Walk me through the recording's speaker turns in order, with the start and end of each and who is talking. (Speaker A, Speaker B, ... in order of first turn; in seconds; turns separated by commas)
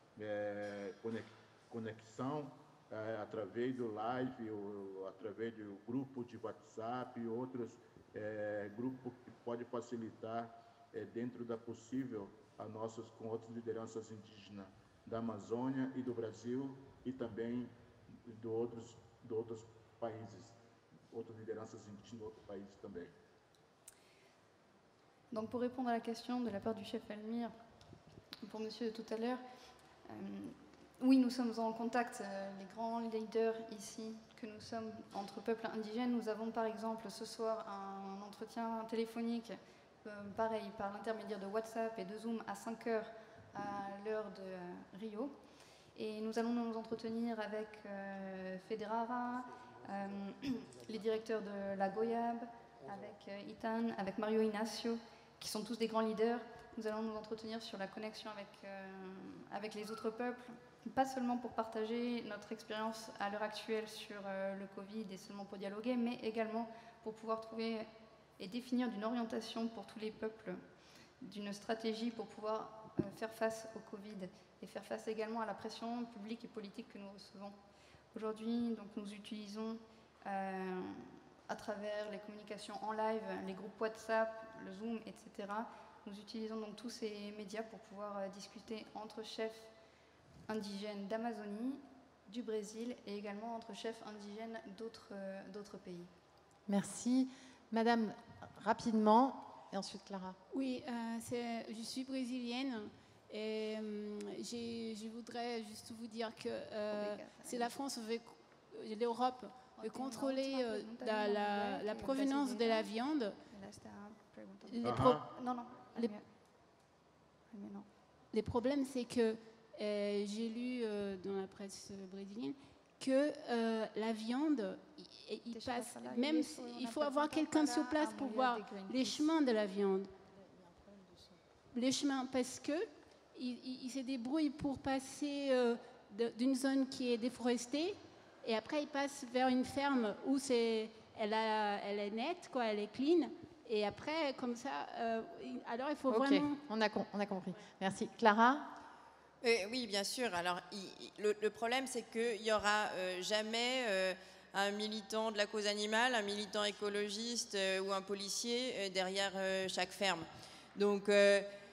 Speaker A: 0.1-17.7, Speaker A: 18.2-20.6, Speaker A: 21.1-23.1, Speaker B: 25.3-27.5, Speaker B: 28.4-29.4, Speaker B: 30.1-45.4, Speaker B: 45.9-67.9, Speaker B: 68.4-70.6, Speaker B: 71.2-77.6, Speaker B: 78.1-89.7, Speaker B: 90.5-96.1, Speaker C: 96.7-100.4, Speaker D: 100.5-113.4, Speaker B: 106.9-107.7, Speaker B: 109.8-112.9, Speaker B: 113.5-116.2, Speaker D: 114.7-115.2, Speaker A: 114.8-115.3, Speaker B: 117.5-117.9, Speaker D: 118.3-130.1, Speaker B: 125.5-129.3, Speaker D: 131.7-146.6, Speaker C: 146.1-148.7, Speaker E: 149.4-161.5